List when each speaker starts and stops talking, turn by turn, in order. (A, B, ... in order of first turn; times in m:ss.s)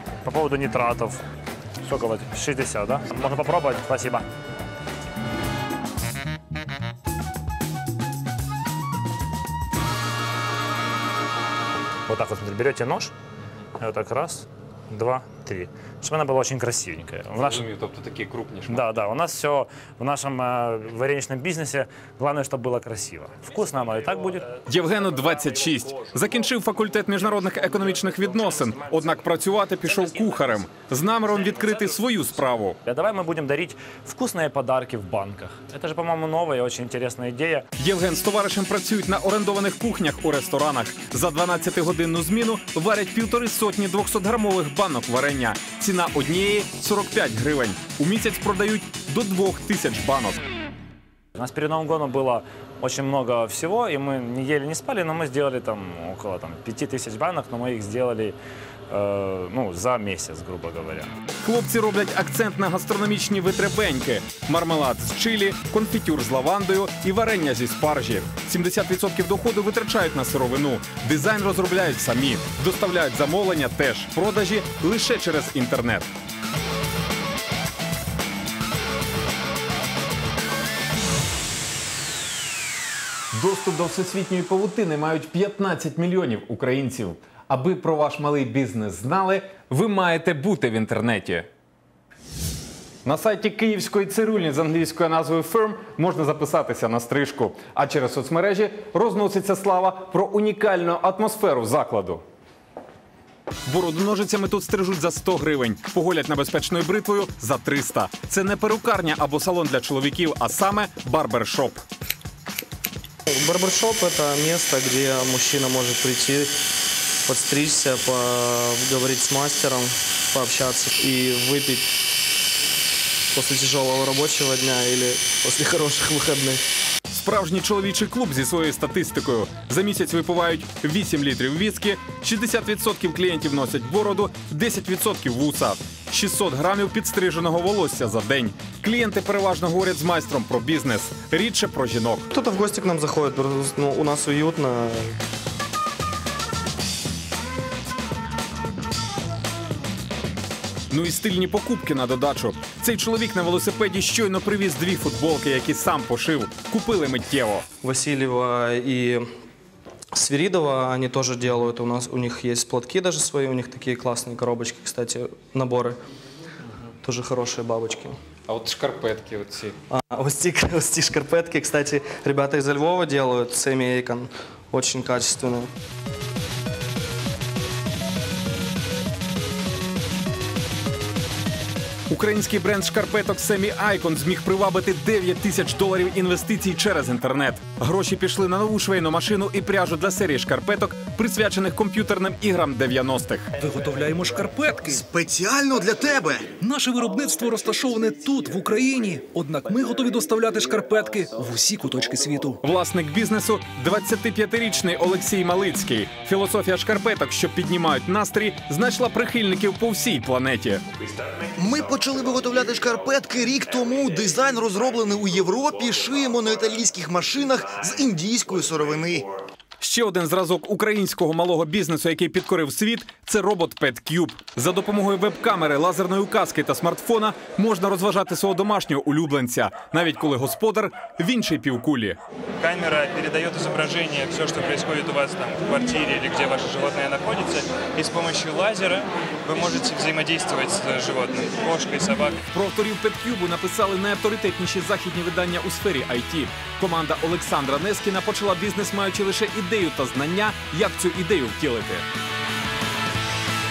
0:00.2-0:01.2 A
0:01.8-0:04.3 A
0:12.1-0:13.1 A
0:13.8-0:17.6 A
0:17.4-0:18.9 B
0:18.7-0:24.5 A
0:24.7-0:32.8 B
0:32.8-0:37.7 A
0:37.8-0:50.4 B
0:51.4-0:58.4 A
0:58.9-1:01.1 A
1:01.4-1:16.1 B
1:23.3-1:31.5 B
1:33.0-1:42.2 B
1:43.7-1:51.8 B
1:53.3-1:56.5 C
1:57.3-2:01.9 C
2:03.3-2:06.6 C
2:07.1-2:22.3 B
2:22.3-2:25.2 C
2:30.9-2:37.6 B
2:37.8-2:39.2 C
2:40.1-2:46.0 C
2:47.0-2:48.2 C
2:48.5-2:49.8 B
2:49.9-2:55.7 C
3:02.1-3:13.5 B
3:13.6-3:15.0 D
3:15.0-3:16.6 E
3:16.6-3:22.6 D
3:22.6-3:30.8 B
3:31.6-3:39.3 E
3:39.8-3:52.2 B
3:52.6-4:02.4 F
4:02.5-4:12.0 B